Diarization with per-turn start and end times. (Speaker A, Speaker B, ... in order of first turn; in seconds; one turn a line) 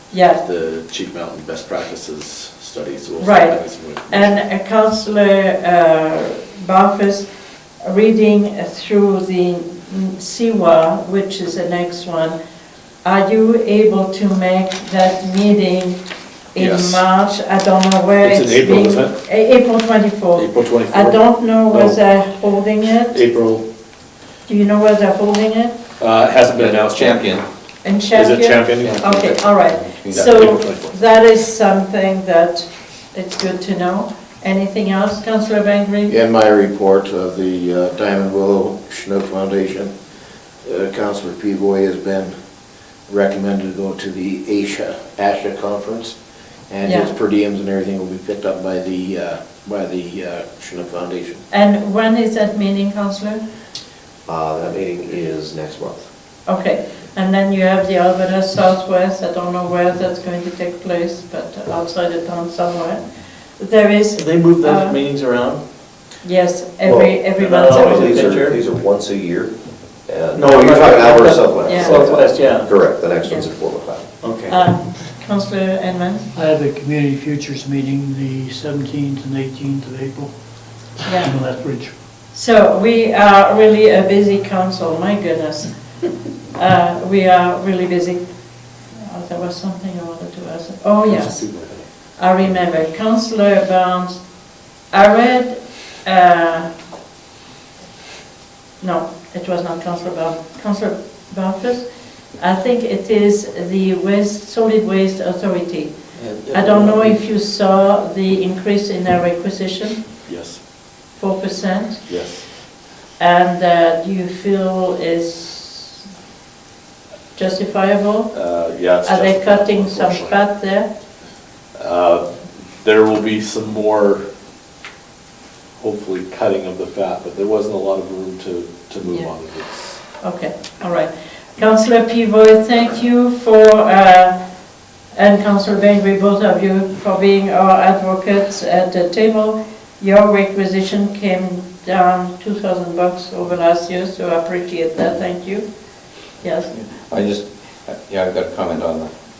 Speaker A: 0.1-0.4
Speaker B: 0.4-4.4
Speaker A: 3.2-7.3
Speaker A: 7.8-12.3
Speaker A: 13.0-16.0
Speaker A: 16.5-23.2
Speaker B: 16.6-17.0
Speaker B: 18.2-19.1
Speaker B: 20.3-21.2
Speaker B: 21.7-22.0
Speaker B: 23.1-23.6
Speaker A: 24.4-25.7
Speaker B: 26.0-27.4
Speaker C: 26.5-27.4
Speaker A: 27.8-36.1
Speaker B: 28.1-29.3
Speaker C: 28.8-30.4
Speaker B: 30.1-30.9
Speaker D: 36.1-39.9
Speaker D: 40.6-42.3
Speaker D: 43.1-46.1
Speaker D: 46.7-51.4
Speaker A: 46.8-47.1
Speaker A: 51.5-53.4
Speaker D: 54.2-56.1
Speaker A: 56.5-65.0
Speaker E: 64.1-65.6
Speaker A: 66.2-68.4
Speaker D: 66.8-68.4
Speaker E: 67.3-68.6
Speaker F: 67.8-69.5
Speaker F: 70.1-73.8
Speaker D: 70.1-72.9
Speaker E: 70.3-72.7
Speaker A: 71.6-72.0
Speaker A: 73.2-73.5
Speaker D: 73.6-74.0
Speaker E: 74.2-75.0
Speaker A: 74.5-76.3
Speaker G: 76.3-81.9
Speaker A: 81.1-81.4
Speaker A: 82.3-85.7
Speaker A: 86.5-88.2
Speaker A: 88.9-91.6
Speaker B: 91.1-91.8
Speaker A: 92.2-94.2
Speaker A: 94.9-96.7
Speaker A: 98.8-105.9
Speaker B: 106.2-107.1
Speaker A: 106.5-110.0
Speaker B: 110.2-110.6
Speaker A: 111.2-112.0
Speaker B: 112.1-112.5
Speaker A: 113.2-116.0
Speaker A: 117.3-118.3
Speaker B: 118.3-120.4
Speaker A: 119.0-120.9
Speaker B: 121.8-122.3
Speaker B: 122.8-124.2
Speaker B: 125.8-130.0
Speaker A: 130.2-134.3
Speaker A: 135.1-145.6
Speaker A: 146.4-146.7
Speaker C: 146.7-149.1